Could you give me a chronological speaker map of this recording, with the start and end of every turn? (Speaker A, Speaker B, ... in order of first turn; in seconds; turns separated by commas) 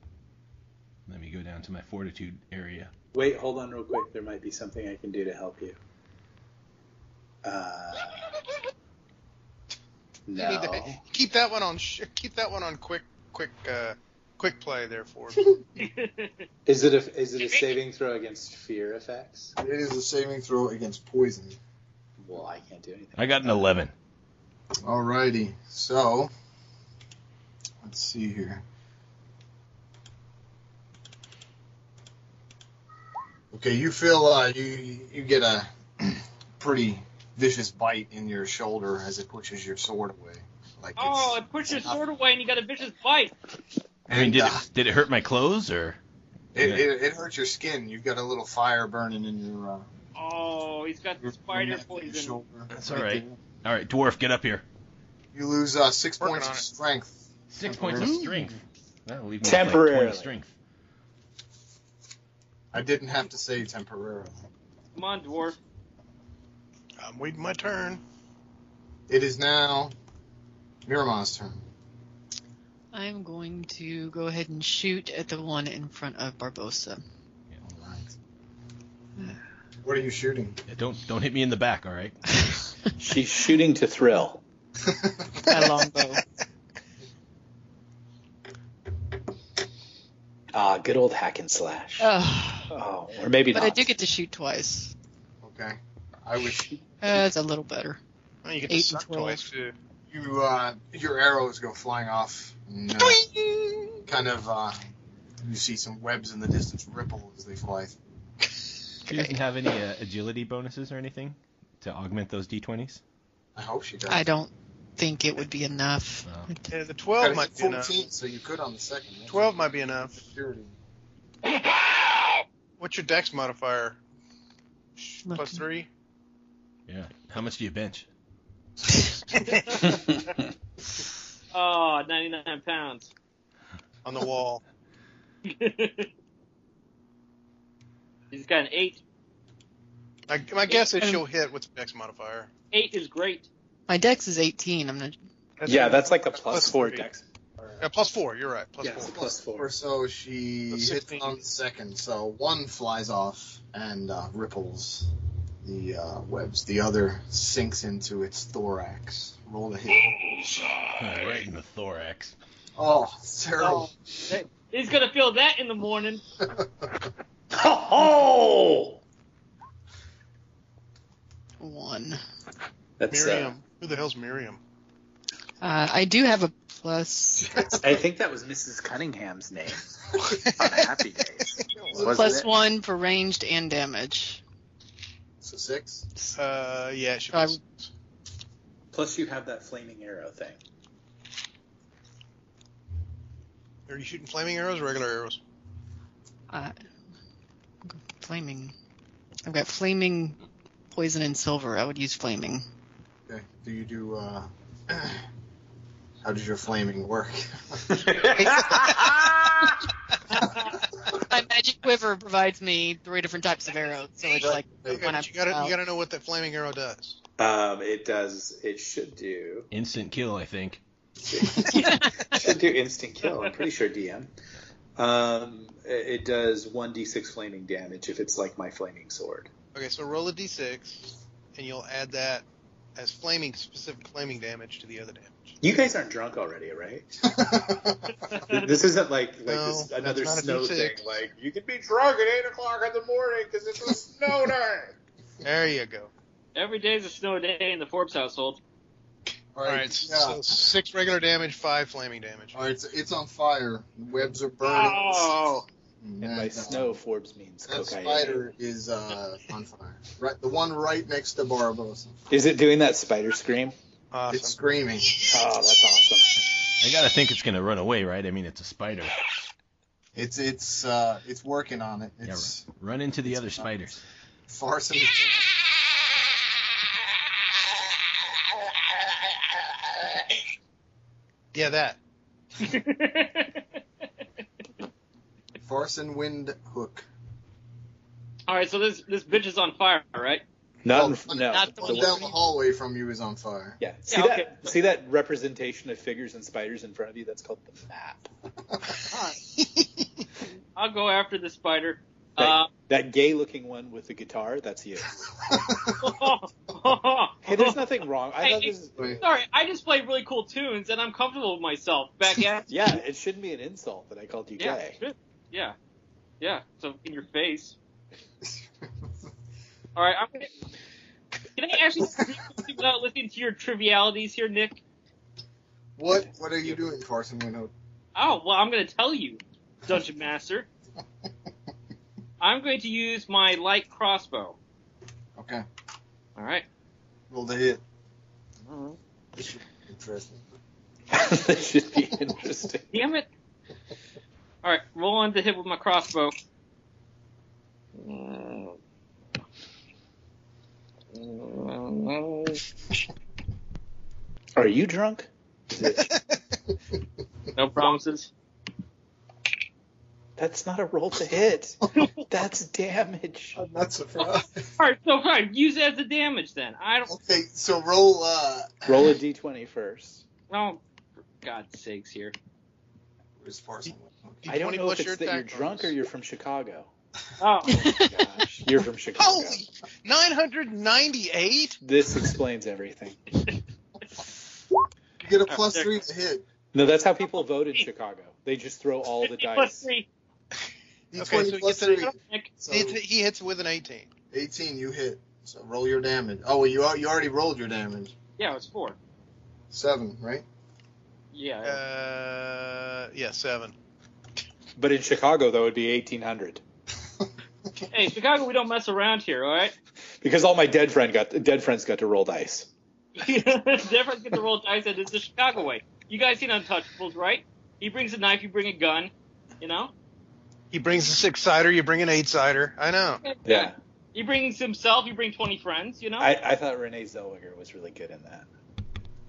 Speaker A: 1.1-2.9, Speaker B: 3.1-5.8, Speaker B: 7.4-8.3, Speaker B: 10.3-11.0, Speaker C: 10.3-15.6, Speaker D: 15.8-16.4, Speaker B: 16.7-19.5, Speaker E: 19.6-21.6, Speaker B: 22.2-23.7, Speaker A: 23.2-23.9, Speaker E: 24.8-26.3, Speaker E: 27.8-28.6, Speaker E: 33.5-42.0, Speaker D: 41.0-43.3, Speaker E: 44.1-44.6, Speaker A: 44.1-46.0, Speaker E: 46.5-49.9, Speaker A: 46.6-46.8, Speaker D: 50.2-52.4, Speaker E: 51.2-53.4, Speaker A: 52.7-54.6, Speaker E: 55.3-58.3, Speaker C: 56.2-56.6, Speaker A: 57.5-60.5, Speaker C: 58.0-58.3, Speaker B: 59.4-60.3, Speaker E: 62.7-64.5, Speaker D: 65.0-65.6, Speaker C: 67.0-68.0, Speaker E: 69.1-69.9, Speaker E: 70.9-71.7, Speaker F: 72.9-77.0, Speaker E: 77.6-78.2, Speaker E: 79.8-80.6, Speaker A: 80.7-82.2, Speaker B: 83.0-84.4, Speaker E: 84.8-85.3, Speaker F: 85.5-86.2, Speaker B: 90.5-92.1, Speaker F: 92.0-92.7, Speaker B: 92.7-93.9, Speaker F: 93.5-94.9, Speaker E: 95.4-96.8, Speaker F: 97.0-98.0, Speaker C: 98.4-99.7, Speaker F: 98.7-99.4, Speaker E: 100.1-103.2, Speaker C: 103.0-104.0, Speaker E: 104.1-104.8, Speaker E: 105.4-108.0, Speaker A: 109.1-113.0, Speaker E: 113.6-114.2, Speaker F: 114.1-116.7, Speaker A: 116.2-116.5, Speaker C: 116.7-117.9, Speaker E: 117.2-119.5, Speaker C: 119.3-120.2, Speaker E: 120.2-120.8, Speaker C: 122.8-124.0, Speaker C: 125.0-125.9, Speaker F: 125.2-125.6, Speaker A: 126.9-128.1, Speaker C: 129.3-129.8, Speaker D: 129.5-129.8, Speaker D: 131.5-133.1, Speaker C: 134.1-134.6, Speaker D: 135.4-136.1, Speaker D: 138.3-139.0, Speaker C: 140.3-142.5, Speaker F: 140.9-141.2, Speaker D: 142.7-143.5, Speaker F: 143.9-145.2, Speaker C: 145.6-147.1, Speaker B: 145.7-147.7, Speaker C: 147.8-149.2, Speaker B: 148.8-149.7, Speaker E: 149.2-155.1, Speaker C: 150.7-151.4, Speaker E: 155.6-160.2, Speaker A: 161.0-162.3, Speaker E: 162.8-163.9, Speaker D: 163.6-166.2, Speaker B: 167.5-169.0, Speaker F: 171.6-172.2, Speaker B: 173.0-173.5, Speaker C: 173.1-174.6, Speaker F: 175.6-177.7, Speaker B: 177.8-179.9, Speaker C: 180.3-180.8, Speaker B: 180.5-182.5, Speaker C: 181.6-182.2, Speaker E: 181.9-182.3, Speaker F: 182.0-184.4, Speaker E: 185.4-186.1, Speaker C: 186.3-187.9, Speaker F: 187.3-187.6, Speaker B: 188.9-190.6, Speaker C: 193.9-195.4, Speaker F: 197.9-198.7, Speaker F: 199.4-200.4, Speaker F: 200.9-202.6, Speaker E: 203.3-205.2, Speaker E: 206.2-207.8, Speaker B: 207.9-209.8, Speaker F: 208.3-209.1, Speaker F: 211.1-215.8, Speaker E: 214.4-215.1, Speaker C: 214.9-217.2, Speaker B: 217.4-219.7, Speaker A: 219.7-220.8, Speaker B: 221.3-221.8, Speaker F: 221.6-222.5, Speaker B: 222.3-224.3, Speaker D: 223.2-223.5, Speaker B: 225.0-229.5, Speaker C: 229.8-235.6, Speaker B: 235.6-237.1, Speaker E: 237.3-238.0, Speaker D: 238.2-238.7, Speaker B: 238.5-244.9, Speaker C: 239.5-241.1, Speaker C: 245.4-246.1, Speaker D: 246.6-248.6, Speaker E: 249.6-250.7, Speaker C: 249.6-252.6, Speaker E: 252.5-255.4, Speaker D: 254.7-255.7, Speaker E: 256.0-256.9, Speaker B: 256.2-258.4, Speaker E: 257.7-262.2, Speaker B: 262.3-263.8, Speaker C: 264.1-264.6, Speaker E: 264.3-265.2, Speaker B: 265.3-266.3, Speaker A: 266.8-269.2, Speaker E: 270.1-272.7, Speaker A: 272.2-274.0, Speaker E: 273.3-273.7, Speaker E: 274.5-275.4, Speaker C: 281.5-282.0, Speaker D: 282.6-283.6, Speaker E: 285.6-287.1, Speaker D: 288.5-290.4, Speaker B: 290.8-292.2, Speaker E: 290.9-293.8, Speaker F: 291.6-292.3, Speaker B: 293.8-298.3, Speaker D: 294.1-294.7, Speaker D: 299.1-299.4, Speaker C: 299.6-300.1, Speaker D: 300.8-302.7, Speaker B: 302.4-305.2, Speaker E: 305.5-306.1, Speaker D: 306.0-307.8, Speaker B: 307.4-309.2, Speaker D: 308.4-312.7, Speaker B: 312.7-315.0, Speaker D: 314.6-315.8, Speaker D: 316.4-317.8, Speaker D: 320.0-320.5, Speaker D: 321.6-324.8, Speaker E: 326.0-327.7, Speaker D: 328.1-330.7, Speaker D: 332.4-334.6, Speaker E: 335.4-335.7, Speaker D: 336.4-336.6, Speaker E: 337.3-337.8, Speaker D: 338.7-339.0, Speaker E: 339.4-340.4, Speaker B: 341.1-342.9, Speaker D: 342.9-343.3, Speaker D: 344.6-346.4, Speaker D: 348.0-348.7, Speaker D: 351.1-352.6, Speaker B: 354.6-356.1, Speaker C: 355.9-356.4, Speaker D: 357.6-358.3, Speaker B: 360.4-363.6, Speaker E: 363.6-364.7, Speaker D: 364.8-367.1, Speaker E: 367.1-369.1, Speaker B: 368.9-370.2, Speaker D: 370.5-370.8, Speaker D: 371.4-372.4, Speaker E: 373.4-374.5, Speaker C: 374.4-375.9, Speaker B: 374.5-376.9, Speaker D: 377.4-377.8, Speaker F: 377.7-378.1, Speaker B: 377.7-379.6, Speaker C: 379.2-381.8, Speaker B: 381.8-383.2, Speaker E: 385.2-386.5, Speaker D: 385.5-386.0, Speaker B: 386.7-389.9, Speaker D: 389.2-390.1, Speaker E: 391.1-393.0, Speaker C: 391.2-392.0, Speaker D: 391.8-392.5, Speaker C: 392.6-394.1, Speaker E: 394.3-398.1, Speaker D: 398.4-399.0, Speaker E: 399.7-400.4, Speaker D: 401.3-401.8, Speaker C: 401.6-403.7, Speaker B: 404.8-406.6, Speaker D: 407.9-409.7, Speaker B: 410.2-412.7, Speaker D: 413.2-419.9, Speaker C: 420.7-423.2, Speaker D: 423.2-426.3, Speaker B: 423.4-423.8, Speaker B: 426.2-428.5